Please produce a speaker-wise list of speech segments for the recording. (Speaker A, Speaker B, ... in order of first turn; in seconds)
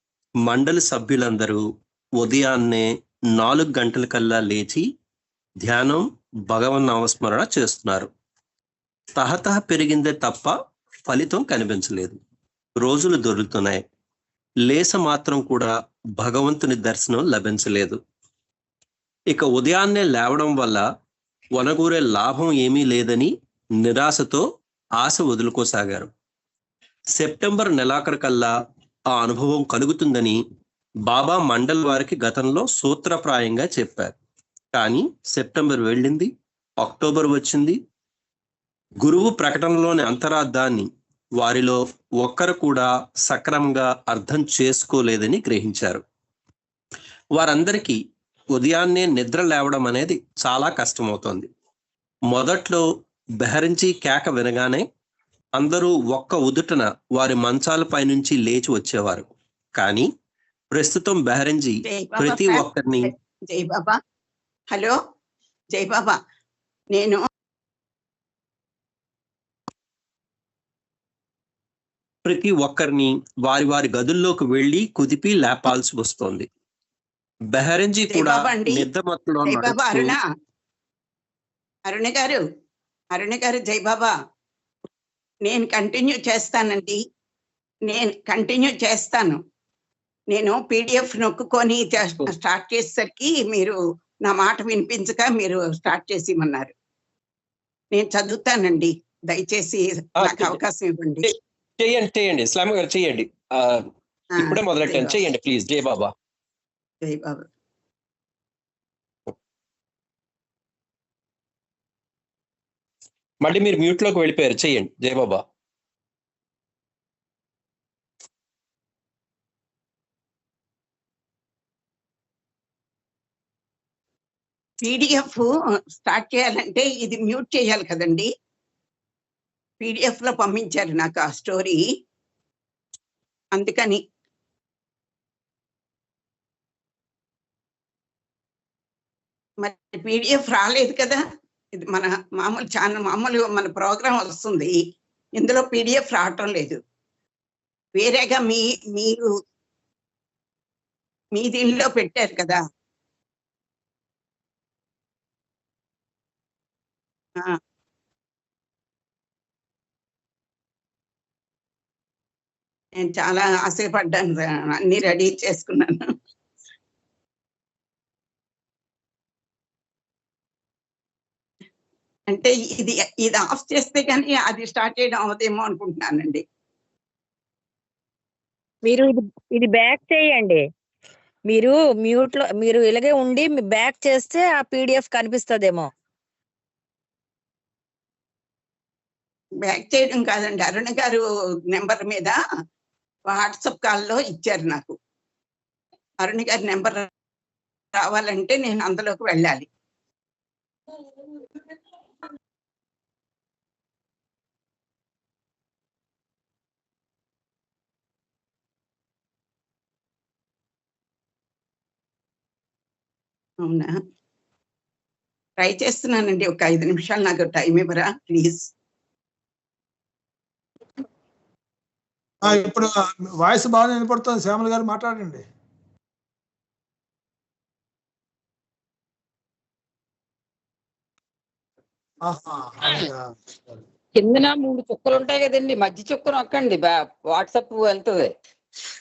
Speaker A: 0.4-1.6, 2.2-4.8, 5.6-8.1, 9.2-10.5, 11.1-12.2, 12.8-13.8, 14.6-18.0, 19.3-20.9, 21.5-24.4, 25.0-26.1, 27.1-28.5, 29.1-30.4, 31.1-34.1, 34.7-36.3, 36.8-37.8, 39.0-40.9, 41.4-46.0, 47.3-48.0, 48.5-51.5, 52.3-52.8, 53.4-54.8, 55.6-60.1, 60.7-63.1, 72.2-76.5, 77.5-80.2, 100.2-100.6, 101.2-106.1, 113.4-115.4
Speaker B: 61.8-64.0, 64.7-65.0, 65.7-66.2, 66.9-67.2, 78.1-78.9, 79.4-80.2, 81.9-82.4, 83.1-84.1, 85.4-87.0, 87.9-89.4, 90.3-96.7, 97.9-101.3, 104.3-105.2, 107.0-107.5, 124.8-128.3, 129.8-131.8, 133.5-134.0, 139.6-141.2, 141.8-144.8, 145.4-146.8, 148.0-149.3, 151.3-152.6, 163.0-166.1, 172.3-176.4, 189.6-192.4, 193.3-194.9, 196.2-197.1, 197.9-199.7, 213.6-213.9, 215.6-218.7
Speaker C: 178.8-180.6, 181.5-185.9
Speaker D: 222.4-225.4, 232.2-233.8
Speaker E: 234.2-238.3